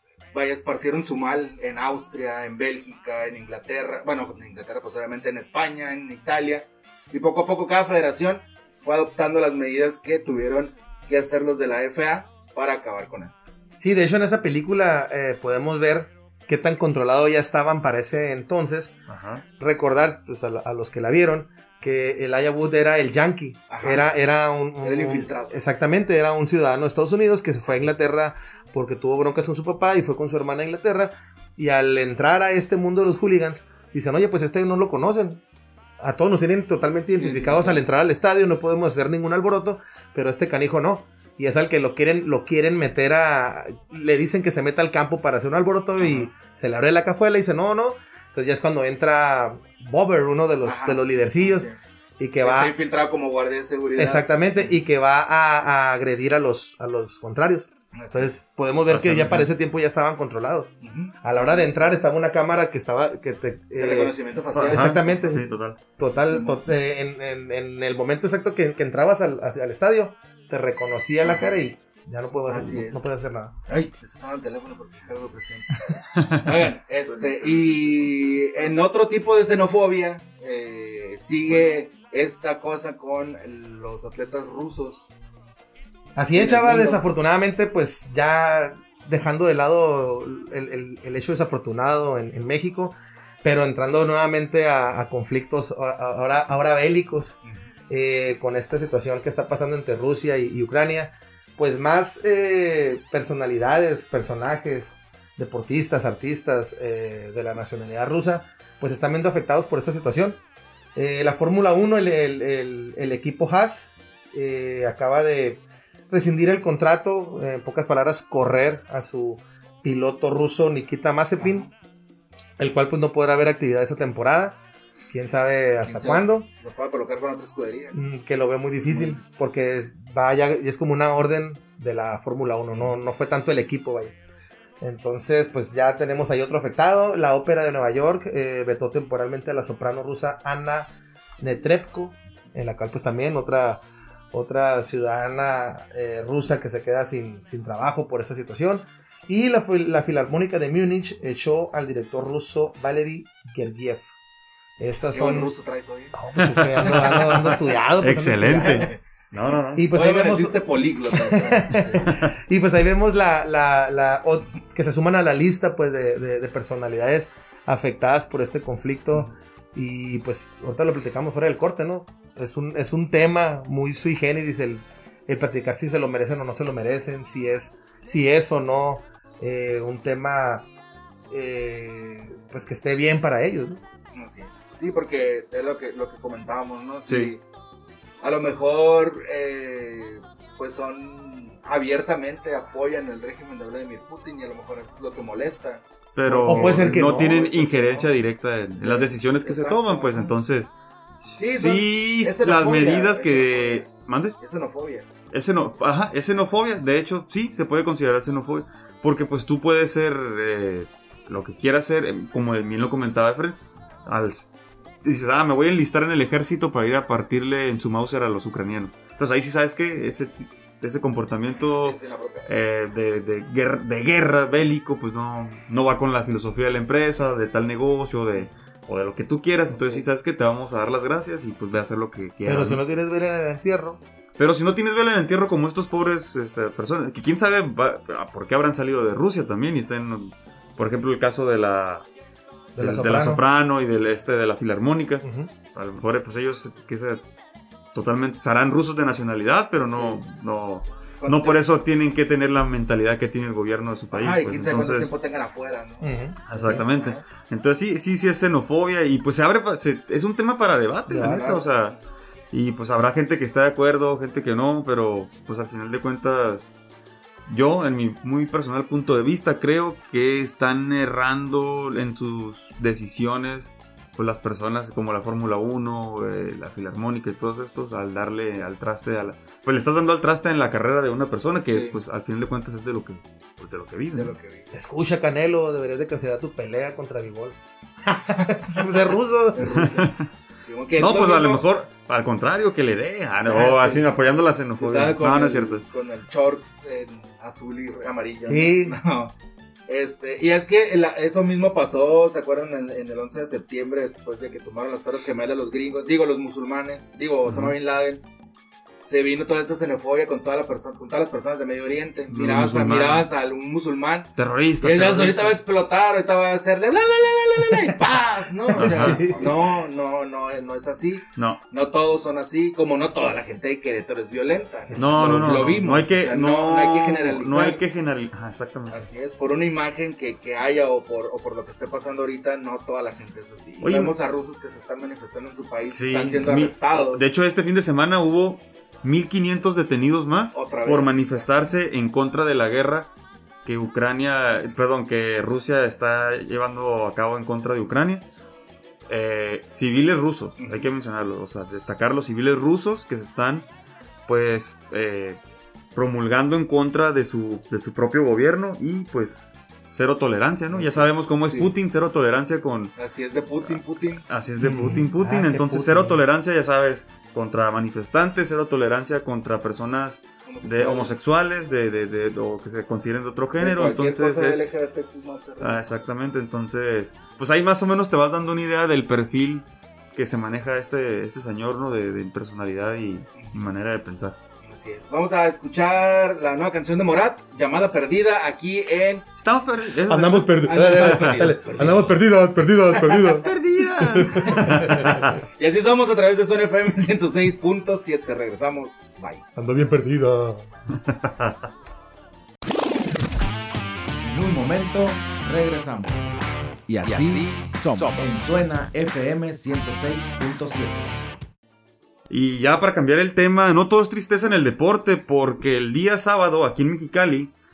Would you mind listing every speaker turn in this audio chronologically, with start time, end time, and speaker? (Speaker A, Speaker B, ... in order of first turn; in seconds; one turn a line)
Speaker A: 0.3-13.4
Speaker B: 13.8-19.0
Speaker C: 19.1-19.4
Speaker B: 19.6-35.4
Speaker A: 23.7-24.1
Speaker A: 24.8-25.6
Speaker B: 36.0-52.7
Speaker A: 37.2-37.8
Speaker A: 46.0-46.3
Speaker A: 50.6-51.8
Speaker A: 52.4-54.4
Speaker B: 54.0-73.5
Speaker A: 57.9-58.3
Speaker C: 58.9-59.5
Speaker A: 60.8-61.1
Speaker A: 63.8-65.0
Speaker C: 64.6-65.8
Speaker A: 66.3-66.6
Speaker A: 71.2-71.5
Speaker A: 72.5-73.0
Speaker A: 73.7-85.1
Speaker B: 86.2-97.4
Speaker A: 86.3-87.1
Speaker A: 97.4-97.7
Speaker B: 97.9-110.4
Speaker B: 111.0-121.7
Speaker A: 121.4-121.7
Speaker B: 122.6-126.5
Speaker A: 125.8-128.0
Speaker B: 127.9-134.2
Speaker A: 128.9-129.2
Speaker B: 134.8-154.1
Speaker B: 154.8-155.5
Speaker A: 155.1-156.2
Speaker B: 156.1-158.9
Speaker C: 156.4-159.8
Speaker A: 158.7-159.0
Speaker B: 159.7-160.6
Speaker A: 159.9-162.1
Speaker B: 161.2-180.7
Speaker B: 181.3-183.8
Speaker A: 184.1-187.4
Speaker C: 187.1-187.3
Speaker A: 188.2-198.1
Speaker C: 196.2-204.4
Speaker B: 196.4-197.4
Speaker A: 198.8-200.3
Speaker A: 201.4-203.9
Speaker A: 204.4-205.1
Speaker C: 205.3-214.5
Speaker C: 215.0-232.8
Speaker A: 221.8-222.5
Speaker B: 229.7-230.0
Speaker B: 232.4-234.0
Speaker C: 234.4-242.1
Speaker B: 242.8-243.4
Speaker C: 242.8-247.2
Speaker B: 245.2-245.5
Speaker C: 247.9-255.1
Speaker A: 249.9-250.2
Speaker A: 251.2-251.7
Speaker A: 254.1-257.2
Speaker B: 256.0-256.8
Speaker C: 256.5-262.0
Speaker B: 261.1-261.5
Speaker A: 261.1-262.0
Speaker C: 262.5-266.7
Speaker C: 267.5-284.4
Speaker A: 281.7-282.0
Speaker A: 284.1-284.7
Speaker B: 284.7-289.8
Speaker A: 289.5-291.6
Speaker C: 289.7-290.2
Speaker C: 291.0-295.8
Speaker A: 293.5-294.1
Speaker A: 294.8-299.3
Speaker B: 298.5-299.0
Speaker A: 299.9-308.2
Speaker C: 307.5-307.7
Speaker A: 309.0-314.3
Speaker C: 312.3-313.3
Speaker C: 314.4-315.6
Speaker A: 314.8-327.8
Speaker B: 318.7-319.6
Speaker C: 318.8-319.3
Speaker C: 321.4-321.6
Speaker B: 324.9-325.8
Speaker C: 325.0-329.1
Speaker A: 328.9-337.2
Speaker C: 333.8-334.1
Speaker C: 335.9-343.1
Speaker A: 340.5-341.5
Speaker C: 343.6-348.2
Speaker C: 349.1-353.6
Speaker A: 350.6-350.9
Speaker C: 354.3-355.4
Speaker C: 355.9-362.9
Speaker A: 360.7-361.7
Speaker A: 363.0-364.2
Speaker C: 363.6-374.8
Speaker B: 364.6-366.2
Speaker A: 370.5-371.1
Speaker A: 373.6-375.9
Speaker C: 375.6-384.4
Speaker A: 384.6-389.2
Speaker C: 389.4-391.5
Speaker B: 390.1-395.3
Speaker A: 390.7-392.1
Speaker C: 393.4-395.4
Speaker A: 394.3-394.7
Speaker A: 395.6-399.5
Speaker B: 399.6-400.7
Speaker C: 401.1-401.6
Speaker D: 404.2-406.4
Speaker D: 406.9-411.1
Speaker C: 412.3-417.5